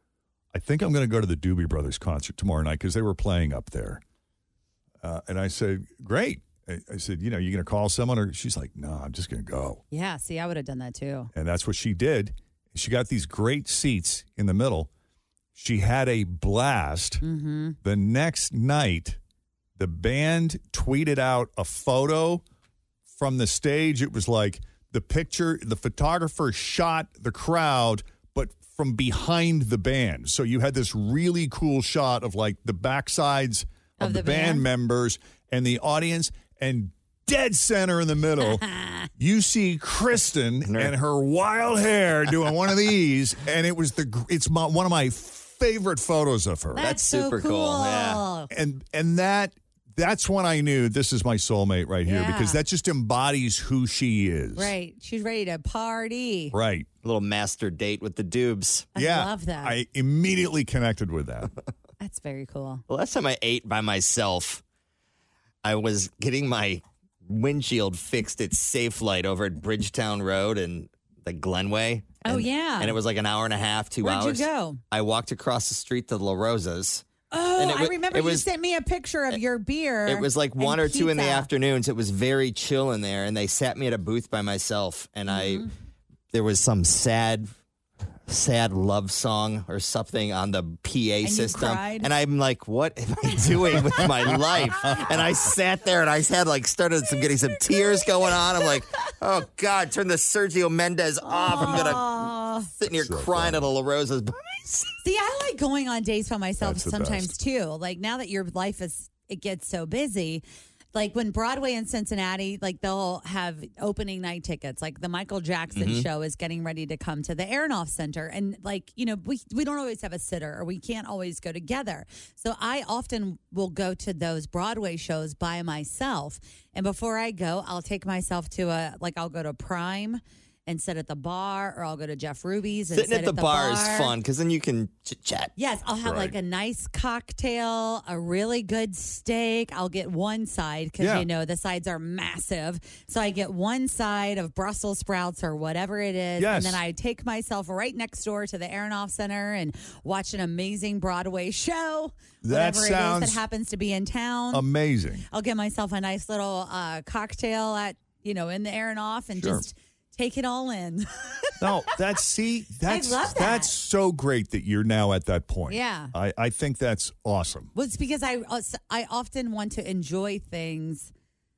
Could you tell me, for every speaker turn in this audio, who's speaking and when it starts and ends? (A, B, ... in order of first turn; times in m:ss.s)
0:00.5-0:04.0 A
0:05.0-0:09.8 A
0:09.9-0:11.3 B
0:11.3-0:14.9 A
0:15.6-0:17.2 A
0:17.2-0:17.8 B
0:17.8-0:19.2 A
0:19.8-0:22.4 A
0:23.1-0:38.7 A
0:34.0-0:34.7 B
0:38.6-0:39.1 B
0:39.2-0:46.9 A
0:40.7-0:40.9 C
0:46.8-0:48.5 B
0:46.8-0:48.2 C
0:48.5-0:54.7 A
0:52.0-0:52.6 B
0:54.6-0:56.6 B
0:56.5-0:56.9 A
0:57.0-0:58.9 C
0:59.0-0:59.8 B
0:59.0-1:01.5 A
1:02.0-1:02.8 B
1:02.9-1:04.6 C
1:05.6-1:17.0 C
1:12.2-1:13.0 B
1:14.0-1:14.8 B
1:17.3-1:21.5 B
1:17.6-1:18.5 C
1:20.1-1:25.7 C
1:25.3-1:25.7 B
1:26.3-1:27.5 C
1:28.3-1:44.9 C
1:31.2-1:32.1 B
1:41.2-1:42.7 B
1:42.9-1:43.7 A
1:45.0-1:50.4 B
1:46.6-1:47.3 A
1:50.9-2:14.1 B
1:55.8-1:56.1 C
2:12.9-2:15.5 C
2:15.6-2:34.7 B
2:16.0-2:16.4 A
2:21.0-2:21.3 A
2:26.4-2:26.8 A
2:32.4-2:33.4 A
2:34.5-2:35.3 A
2:35.3-2:41.6 B
2:39.4-2:39.7 A
2:41.6-2:47.7 A
2:42.9-2:43.7 B
2:45.7-2:46.1 B
2:47.8-2:51.1 B